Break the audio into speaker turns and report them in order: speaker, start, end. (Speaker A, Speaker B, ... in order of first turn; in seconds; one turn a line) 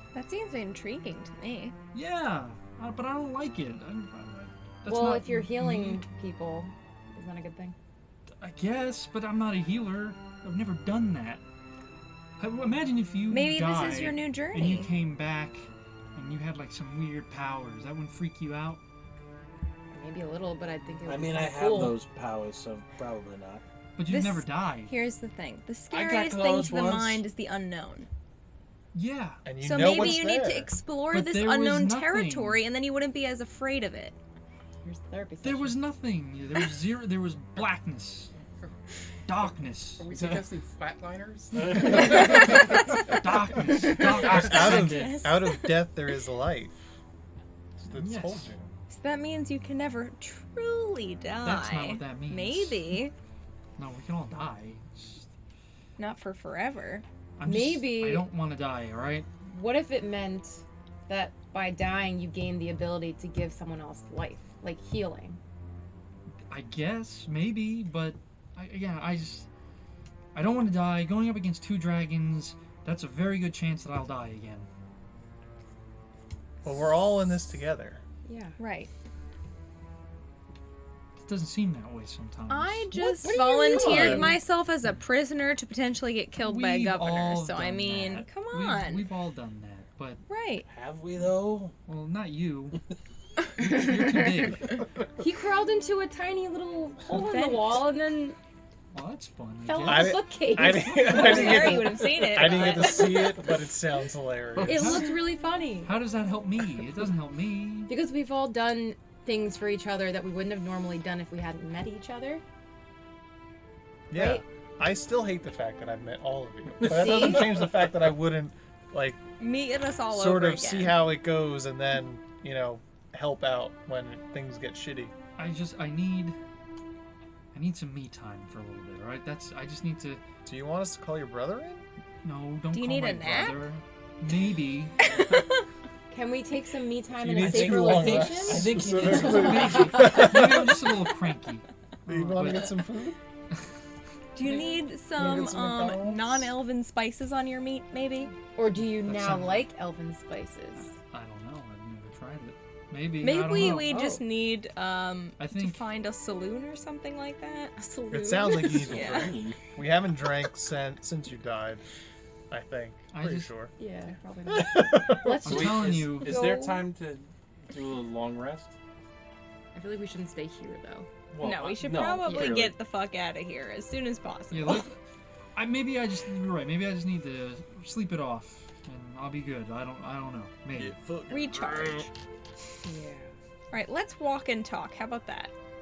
Speaker A: 0.1-1.7
Speaker B: 1.9-6.0
Speaker C: 4.8-7.8
Speaker B: 8.4-11.4
Speaker B: 12.4-18.8
Speaker A: 13.3-14.9
Speaker C: 19.9-22.0
Speaker D: 21.1-23.6
Speaker B: 24.0-24.9
Speaker A: 24.1-28.1
Speaker D: 25.9-27.2
Speaker B: 28.9-30.2
Speaker E: 29.4-30.7
Speaker A: 29.6-34.1
Speaker B: 31.1-32.6
Speaker C: 34.8-35.8
Speaker B: 35.4-38.3
Speaker B: 39.3-40.1
Speaker F: 40.0-42.6
Speaker D: 41.5-42.1
Speaker B: 42.2-45.2
Speaker E: 44.1-46.8
Speaker A: 44.2-45.8
Speaker E: 47.8-48.7
Speaker B: 47.9-48.5
Speaker A: 48.9-53.1
Speaker B: 51.4-52.9
Speaker B: 53.8-55.3
Speaker A: 56.0-57.0
Speaker B: 57.4-59.3
Speaker C: 57.4-58.3
Speaker C: 59.4-65.4
Speaker B: 66.5-69.5
Speaker B: 70.3-74.7
Speaker E: 76.6-78.0
Speaker C: 78.2-78.6
Speaker A: 78.6-78.9
Speaker B: 81.2-83.2
Speaker A: 82.5-89.1
Speaker F: 83.2-84.3
Speaker E: 83.8-84.3
Speaker B: 86.4-90.2
Speaker A: 90.3-90.7
Speaker D: 90.7-91.7
Speaker B: 91.9-92.8
Speaker B: 93.6-94.8
Speaker C: 95.2-98.4
Speaker A: 97.1-97.9
Speaker B: 98.9-100.6
Speaker C: 99.6-101.6
Speaker E: 99.8-105.0
Speaker A: 101.0-103.4
Speaker B: 101.2-101.5
Speaker C: 104.7-105.9
Speaker B: 104.7-105.2
Speaker B: 105.8-107.9
Speaker C: 107.9-112.4
Speaker E: 114.1-119.2
Speaker C: 114.1-114.4
Speaker A: 116.8-117.5
Speaker A: 119.4-121.1
Speaker E: 120.1-125.1
Speaker B: 125.4-126.4
Speaker B: 127.5-130.2
Speaker E: 130.4-131.8
Speaker B: 132.2-135.0
Speaker A: 132.7-133.7
Speaker A: 135.0-135.6
Speaker C: 136.1-139.7
Speaker E: 137.2-140.8
Speaker D: 137.4-140.0
Speaker B: 138.8-142.7
Speaker E: 142.1-143.2
Speaker A: 144.3-148.3
Speaker E: 145.2-146.5
Speaker C: 148.5-150.9
Speaker B: 148.9-149.7
Speaker B: 150.8-154.1
Speaker A: 153.2-159.3
Speaker C: 153.8-154.2
Speaker B: 155.4-155.8
Speaker C: 157.8-158.6
Speaker E: 158.1-161.8
Speaker D: 158.7-159.6
Speaker E: 162.5-163.7
Speaker B: 163.1-163.5
Speaker C: 163.8-166.8
Speaker E: 164.5-165.8
Speaker B: 165.4-166.5
Speaker D: 165.4-168.7
Speaker C: 169.7-171.1
Speaker D: 171.3-172.8
Speaker A: 171.4-174.8
Speaker C: 172.2-172.6
Speaker B: 174.5-175.0
Speaker B: 175.5-181.0
Speaker E: 180.7-182.1
Speaker A: 181.3-182.1
Speaker C: 182.8-183.3
Speaker A: 183.7-185.5